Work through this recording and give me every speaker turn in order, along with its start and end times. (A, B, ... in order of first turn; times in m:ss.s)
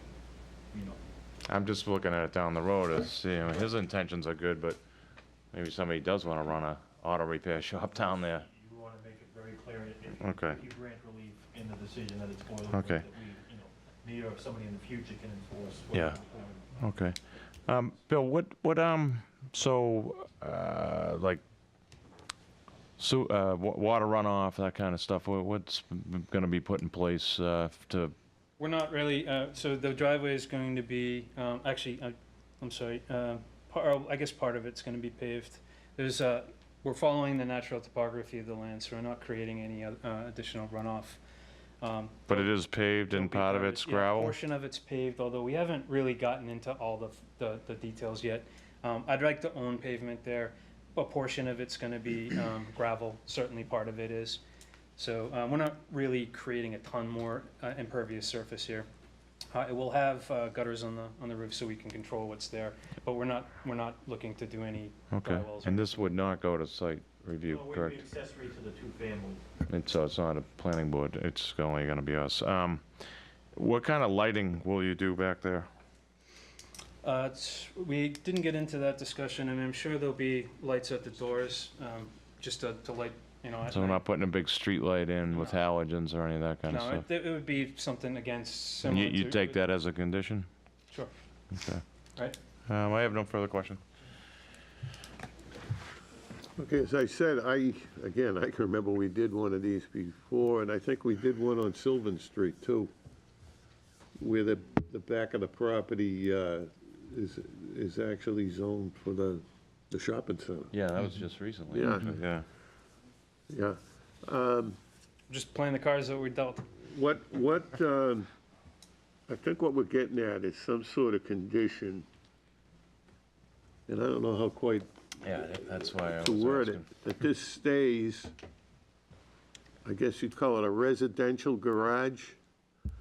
0:00.7-0:01.0 A
0:01.5-0:04.8 B
0:05.5-0:08.4 B
0:07.9-0:16.8 A
0:10.2-0:10.6 B
0:12.7-0:13.0 B
0:15.9-0:16.2 B
0:16.8-0:21.4 B
0:23.0-0:28.1 B
0:28.6-0:41.2 C
0:41.8-0:42.5 C
0:42.3-0:44.4 B
0:43.1-0:54.4 C
0:55.0-0:58.9 C
0:59.5-1:06.1 C
1:05.1-1:08.0 B
1:07.5-1:09.4 A
1:09.7-1:13.0 B
1:13.6-1:15.7 B
1:17.0-1:24.0 C
1:23.7-1:27.1 B
1:25.3-1:25.6 C
1:26.7-1:29.6 C
1:28.8-1:30.5 B
1:31.5-1:31.8 B
1:32.7-1:33.8 B
1:36.6-1:42.9 D
1:44.2-1:50.7 D
1:50.7-1:52.4 B
1:51.7-1:52.1 D
1:53.5-1:54.8 D
1:55.3-1:56.8 C
1:56.8-1:58.3 D
1:59.3-2:02.0 D
2:03.9-2:04.9 D
2:05.2-2:06.9 B
2:06.1-2:08.3 D
2:09.8-2:12.4 D